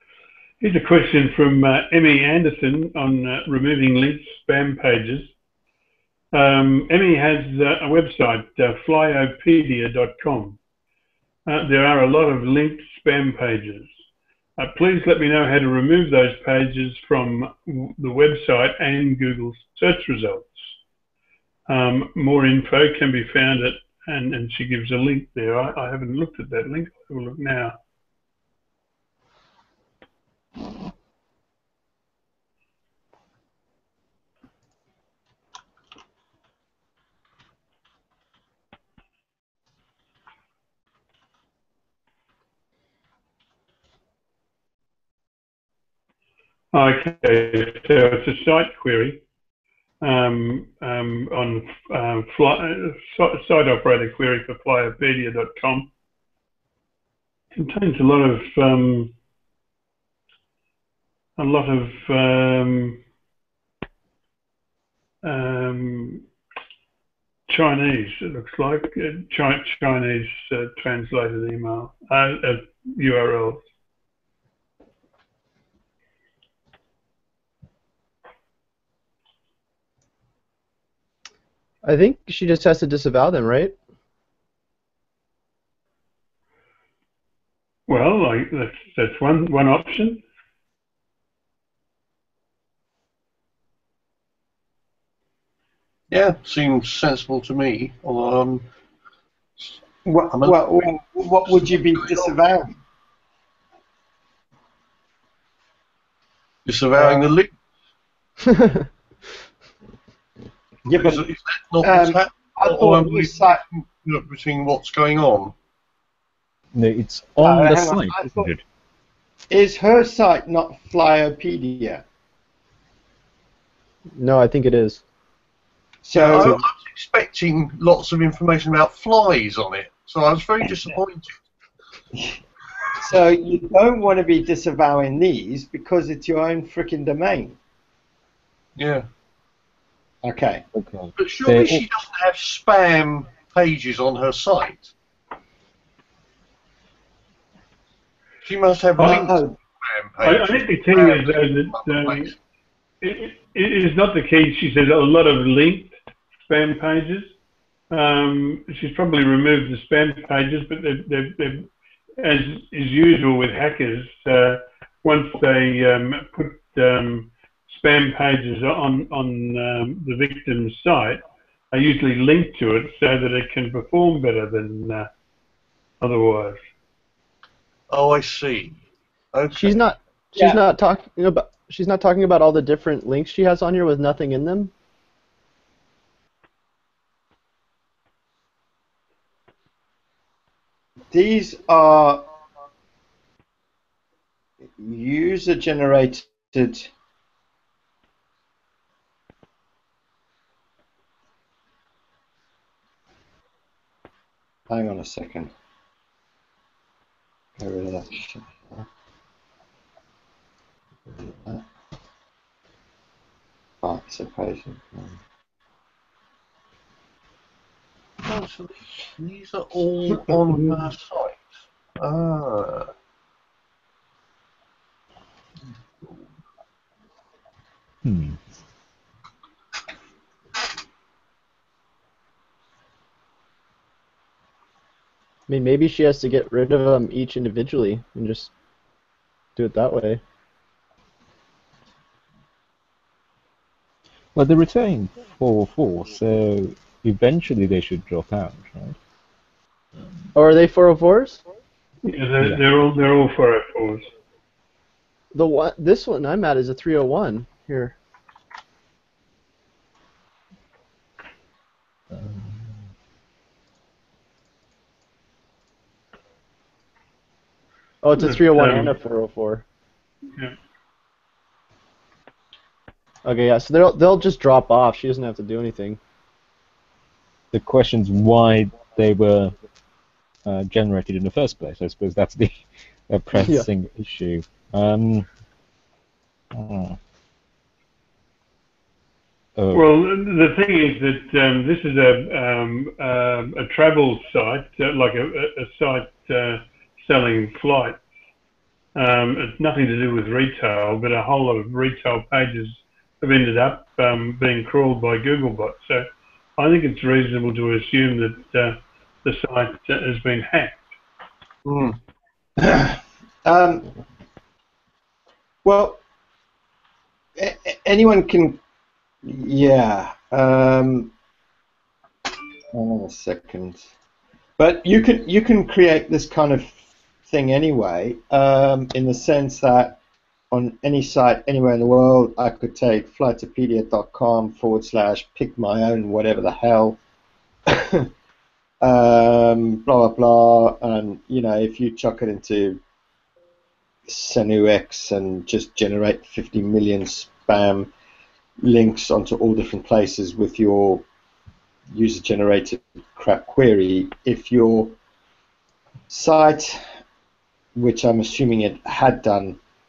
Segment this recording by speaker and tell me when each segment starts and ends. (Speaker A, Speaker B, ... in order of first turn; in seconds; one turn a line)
Speaker A: 0.6-5.3
Speaker A: 6.3-10.6
Speaker A: 11.5-13.9
Speaker A: 14.6-20.7
Speaker A: 21.7-27.8
Speaker A: 46.7-49.2
Speaker A: 50.0-55.9
Speaker A: 57.5-59.1
Speaker A: 61.4-63.0
Speaker A: 65.2-66.2
Speaker A: 67.5-73.6
Speaker B: 81.8-83.7
Speaker A: 87.9-90.2
Speaker C: 96.1-98.7
Speaker D: 100.0-102.8
Speaker C: 100.3-100.9
Speaker C: 101.5-102.3
Speaker C: 106.7-107.5
Speaker D: 110.8-111.2
Speaker C: 110.9-115.5
Speaker D: 111.8-113.6
Speaker E: 116.7-118.6
Speaker D: 117.4-118.5
Speaker D: 119.5-122.0
Speaker B: 124.2-125.0
Speaker D: 126.0-126.6
Speaker C: 126.1-131.3
Speaker D: 133.0-137.6
Speaker C: 138.8-139.1
Speaker D: 140.2-140.6
Speaker E: 140.7-141.8
Speaker C: 141.2-144.9
Speaker C: 148.4-152.3
Speaker D: 149.0-149.6
Speaker A: 150.2-152.3
Speaker A: 153.0-155.9
Speaker A: 156.5-157.3
Speaker A: 157.9-161.7
Speaker A: 162.2-171.2
Speaker A: 171.7-175.1
Speaker A: 176.0-176.6
Speaker C: 177.9-178.8
Speaker C: 179.3-179.8
Speaker B: 179.5-184.7
Speaker D: 191.1-192.2
Speaker D: 194.8-196.9
Speaker D: 204.7-205.5
Speaker D: 207.6-208.8
Speaker D: 211.2-211.6
Speaker D: 213.8-215.1
Speaker C: 218.2-221.4
Speaker C: 222.0-222.9
Speaker E: 228.0-228.4
Speaker B: 235.5-238.5
Speaker B: 239.6-240.2
Speaker E: 244.3-248.9
Speaker B: 250.3-251.4
Speaker A: 252.1-254.1
Speaker B: 255.3-257.9
Speaker E: 262.1-262.7
Speaker B: 268.0-269.6
Speaker A: 268.2-268.9
Speaker B: 273.2-276.0
Speaker E: 277.5-279.5
Speaker E: 280.4-285.3
Speaker B: 283.3-283.7
Speaker E: 286.5-287.0
Speaker E: 289.6-289.9
Speaker A: 289.7-298.0
Speaker A: 298.9-306.1
Speaker A: 306.6-310.8
Speaker C: 311.7-312.0
Speaker D: 312.6-313.9
Speaker D: 315.6-316.0
Speaker D: 317.4-318.6
Speaker D: 319.2-321.1
Speaker D: 322.7-323.8
Speaker D: 324.6-330.0
Speaker D: 330.5-337.0
Speaker D: 337.7-338.1
Speaker D: 338.8-342.8
Speaker D: 344.1-347.9
Speaker D: 348.6-351.1
Speaker D: 351.9-355.0
Speaker D: 356.1-356.8
Speaker D: 357.7-359.6